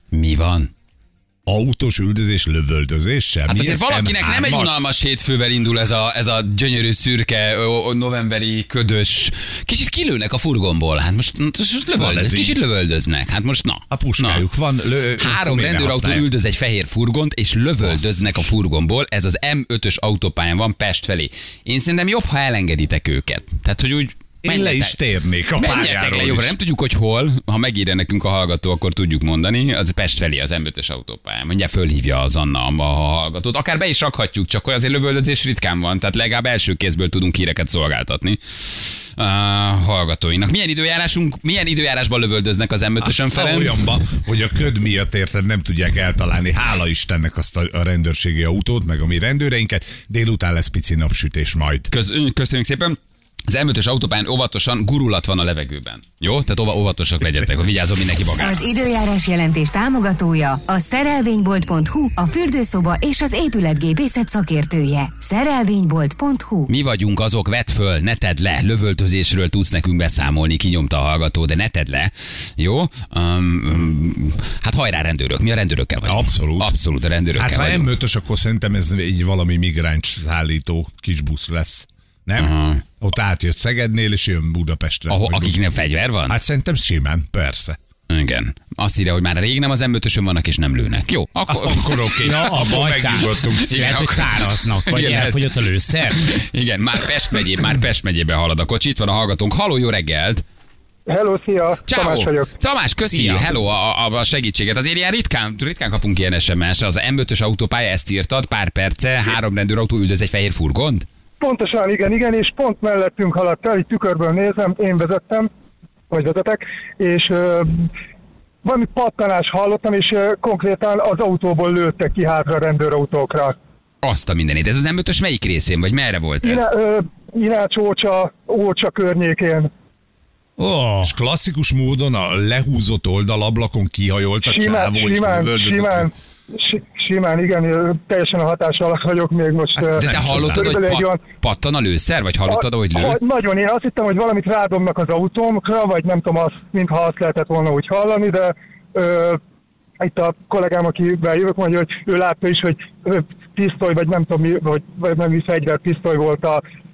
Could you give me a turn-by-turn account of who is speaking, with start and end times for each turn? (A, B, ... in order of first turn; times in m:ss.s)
0:00.1-0:00.7 A
0:01.5-0:04.8 B
0:03.5-0:14.5 A
0:12.0-0:12.6 B
0:13.9-0:16.3 B
0:15.2-0:25.0 A
0:17.8-0:18.5 B
0:24.4-0:26.6 B
0:25.6-0:38.4 A
0:39.2-0:43.9 A
0:43.0-0:51.9 B
0:51.9-0:58.7 A
0:58.4-1:06.7 C
1:06.7-1:17.9 A
1:16.1-1:16.7 B
1:17.3-1:25.6 B
1:22.4-1:22.8 A
1:25.1-1:26.4 A
1:26.3-1:27.8 B
1:28.1-1:32.3 A
1:31.5-1:33.7 B
1:32.2-1:36.3 D
1:33.1-1:40.4 A
1:41.1-1:42.5 E
1:41.9-1:51.1 A
1:43.0-1:43.5 D
1:51.4-1:55.5 E
1:56.1-1:57.9 E
1:58.6-2:03.6 E
2:04.0-2:06.6 A
2:06.4-2:09.7 E
2:10.6-2:11.2 D
2:11.0-2:16.1 B
2:14.4-2:21.2 E
2:19.8-2:23.2 A
2:19.8-2:20.8 B
2:22.4-2:29.4 E
2:30.0-2:36.6 E